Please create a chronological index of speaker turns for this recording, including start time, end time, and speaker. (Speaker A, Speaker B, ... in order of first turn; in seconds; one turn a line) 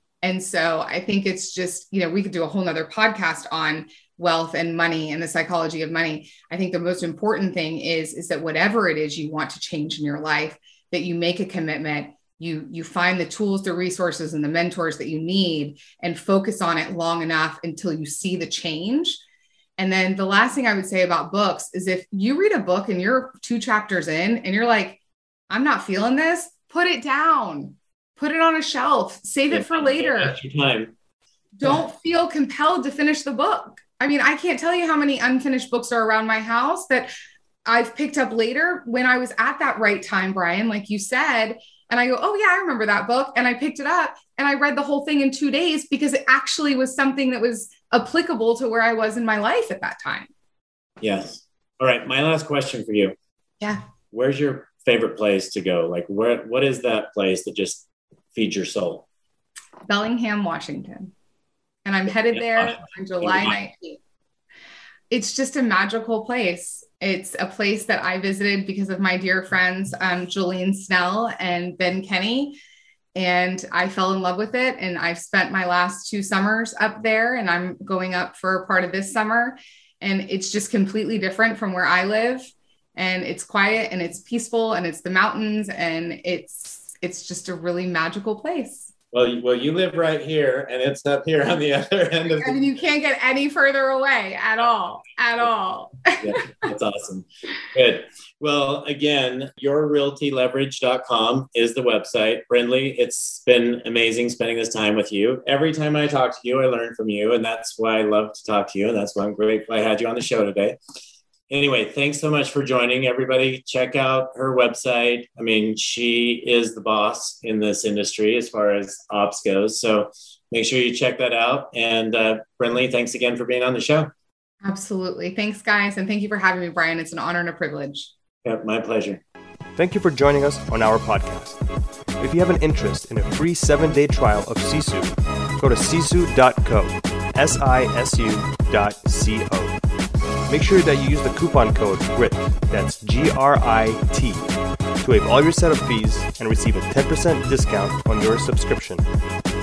Speaker A: 0.2-19.2
Speaker A: 19.8-25.0
Speaker A: 25.5-30.4
Speaker B: 29.5-30.9
Speaker A: 31.6-37.1
Speaker A: 37.7-50.3
Speaker B: 51.0-53.1
Speaker B: 54.1-59.1
Speaker A: 59.9-61.1
Speaker A: 61.9-64.0
Speaker B: 62.4-63.5
Speaker A: 65.1-72.6
Speaker A: 73.2-88.9
Speaker B: 89.1-92.6
Speaker A: 92.4-96.5
Speaker B: 96.2-110.8
Speaker B: 111.5-124.1
Speaker A: 124.6-128.1
Speaker B: 128.4-129.2
Speaker C: 129.8-131.6
Speaker C: 132.2-139.7
Speaker C: 140.5-144.5
Speaker C: 145.0-149.0